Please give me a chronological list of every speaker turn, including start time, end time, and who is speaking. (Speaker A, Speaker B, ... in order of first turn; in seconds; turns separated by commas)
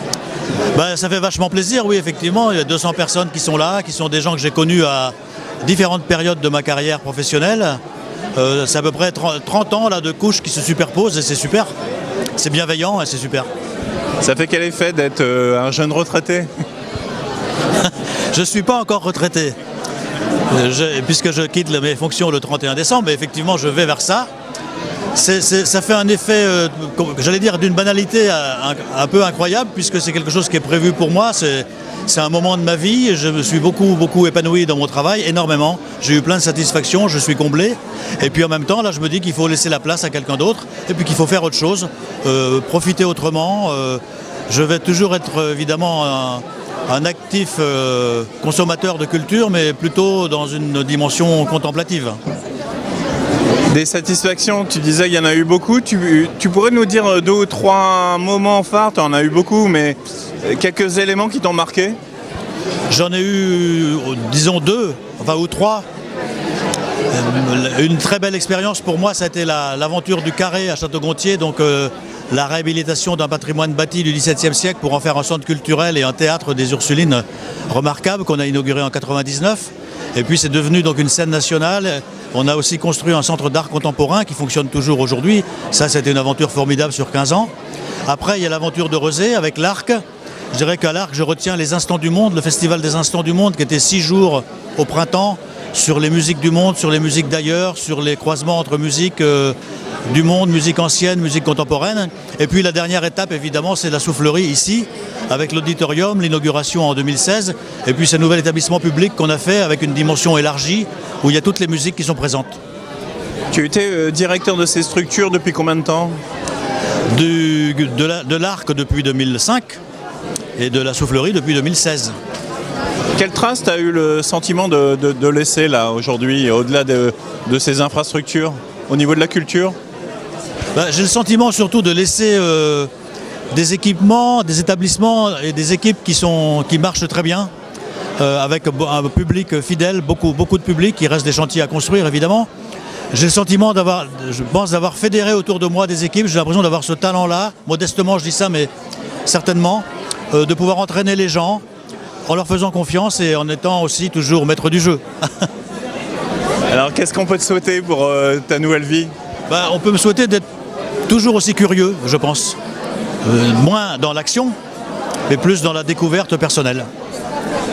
Speaker A: 0.7-7.8, Speaker A: 8.4-11.7, Speaker A: 12.4-13.5, Speaker B: 14.2-16.5, Speaker A: 17.8-19.6, Speaker A: 20.5-24.3, Speaker A: 25.1-52.2, Speaker B: 53.7-62.0, Speaker A: 62.9-65.8, Speaker A: 67.1-87.5, Speaker A: 88.0-99.5, Speaker A: 100.1-112.6, Speaker B: 113.5-116.2, Speaker A: 117.1-119.8, Speaker A: 120.6-122.2, Speaker B: 123.2-129.8, Speaker A: 130.8-132.9, Speaker A: 133.5-137.5, Speaker A: 138.2-142.5, Speaker A: 143.1-148.7, Speaker A: 149.2-151.6, Speaker A: 152.3-155.5, Speaker B: 156.7-159.1, Speaker A: 159.5-160.4, Speaker A: 161.1-162.6, Speaker A: 163.2-164.5, Speaker A: 165.3-166.9